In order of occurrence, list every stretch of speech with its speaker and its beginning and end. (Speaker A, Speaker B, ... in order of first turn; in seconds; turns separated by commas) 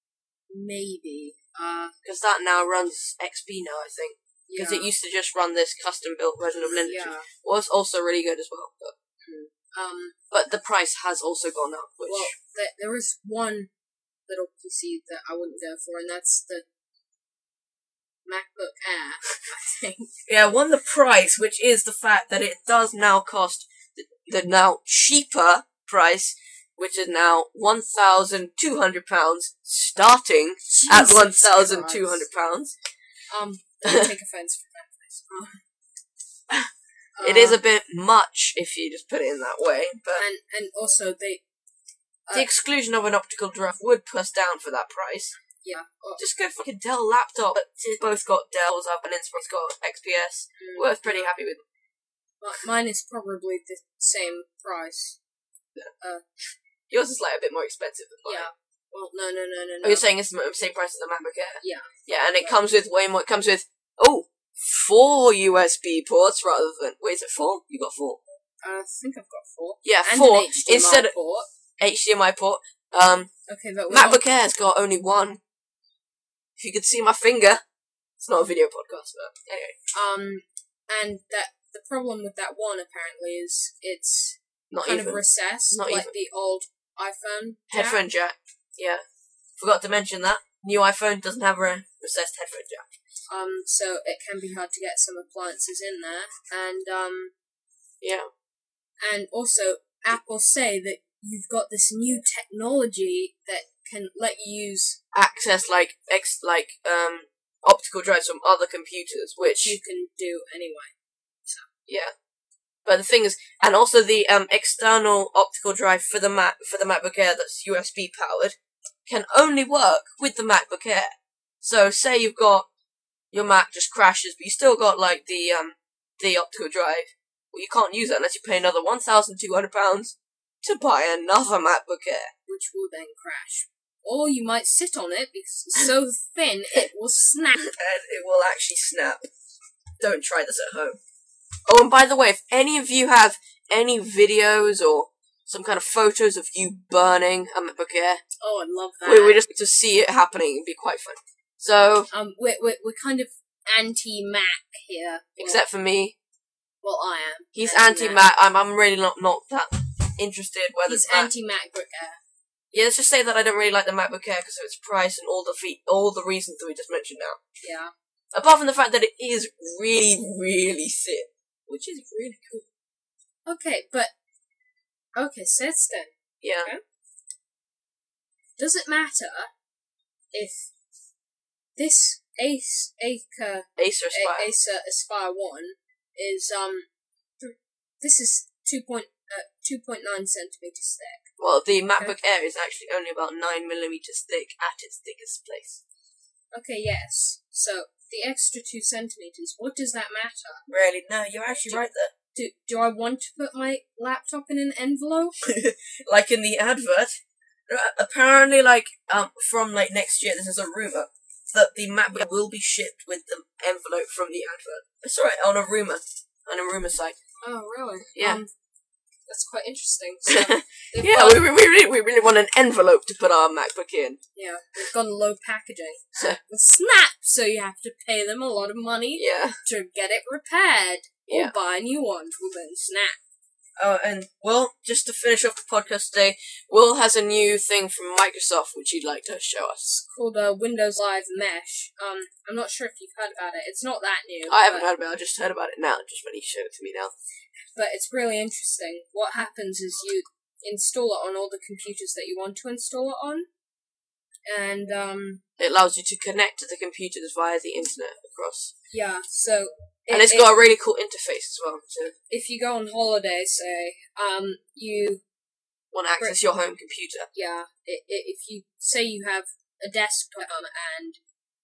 Speaker A: 0.5-1.9, Speaker B: 2.0-8.9, Speaker A: 4.5-4.9, Speaker A: 6.6-7.3, Speaker A: 9.2-10.2, Speaker B: 10.3-12.3, Speaker A: 12.1-13.7, Speaker A: 14.3-16.6, Speaker A: 18.2-20.1, Speaker B: 20.3-32.7, Speaker A: 30.7-32.3, Speaker A: 33.3-35.5, Speaker A: 37.2-37.6, Speaker B: 37.2-40.2, Speaker A: 40.1-41.4, Speaker B: 42.3-45.4, Speaker A: 45.6-46.2, Speaker B: 46.2-51.6, Speaker A: 50.6-51.3, Speaker A: 52.4-55.2, Speaker B: 56.9-58.5, Speaker A: 58.2-60.0, Speaker B: 59.8-68.2, Speaker A: 61.6-62.6, Speaker A: 68.6-71.5, Speaker B: 69.8-71.1, Speaker B: 71.8-73.3, Speaker A: 73.5-74.2, Speaker B: 73.9-75.4, Speaker B: 76.6-77.6, Speaker B: 78.2-79.7, Speaker A: 79.9-88.0, Speaker B: 84.7-86.1, Speaker B: 87.7-89.0, Speaker B: 89.6-92.9, Speaker A: 93.3-97.3, Speaker B: 98.0-98.3, Speaker A: 99.0-105.0, Speaker B: 105.1-109.8, Speaker A: 109.4-110.9, Speaker B: 111.9-112.1, Speaker B: 112.8-122.7, Speaker B: 123.3-132.3, Speaker A: 132.4-137.6, Speaker B: 137.6-139.2, Speaker B: 140.0-141.0, Speaker B: 141.7-148.2, Speaker A: 148.4-149.4, Speaker B: 149.0-152.1, Speaker A: 152.1-155.6, Speaker B: 155.4-156.1, Speaker A: 156.8-158.2, Speaker B: 157.5-161.3, Speaker A: 160.8-162.2, Speaker B: 162.7-167.4, Speaker A: 167.6-167.9, Speaker B: 168.3-172.6, Speaker A: 173.4-174.1, Speaker A: 175.1-176.8, Speaker B: 176.4-176.7, Speaker A: 178.6-179.5, Speaker A: 180.3-180.7, Speaker A: 181.8-186.9, Speaker B: 183.8-184.5, Speaker A: 187.4-191.2, Speaker B: 191.4-195.8, Speaker A: 196.5-200.6, Speaker B: 200.7-202.1, Speaker A: 201.7-205.4, Speaker B: 205.4-217.2, Speaker A: 217.4-218.5, Speaker B: 218.2-218.4, Speaker A: 219.3-221.5, Speaker B: 220.3-224.2, Speaker A: 224.3-233.2, Speaker B: 229.1-229.6, Speaker B: 231.3-231.5, Speaker B: 233.8-239.9, Speaker A: 239.8-244.9, Speaker B: 244.5-247.1, Speaker A: 247.8-253.5, Speaker A: 254.5-255.4, Speaker B: 255.6-258.7, Speaker A: 258.9-260.5, Speaker B: 260.1-262.1, Speaker A: 262.3-265.2, Speaker B: 265.9-267.3, Speaker A: 267.3-271.2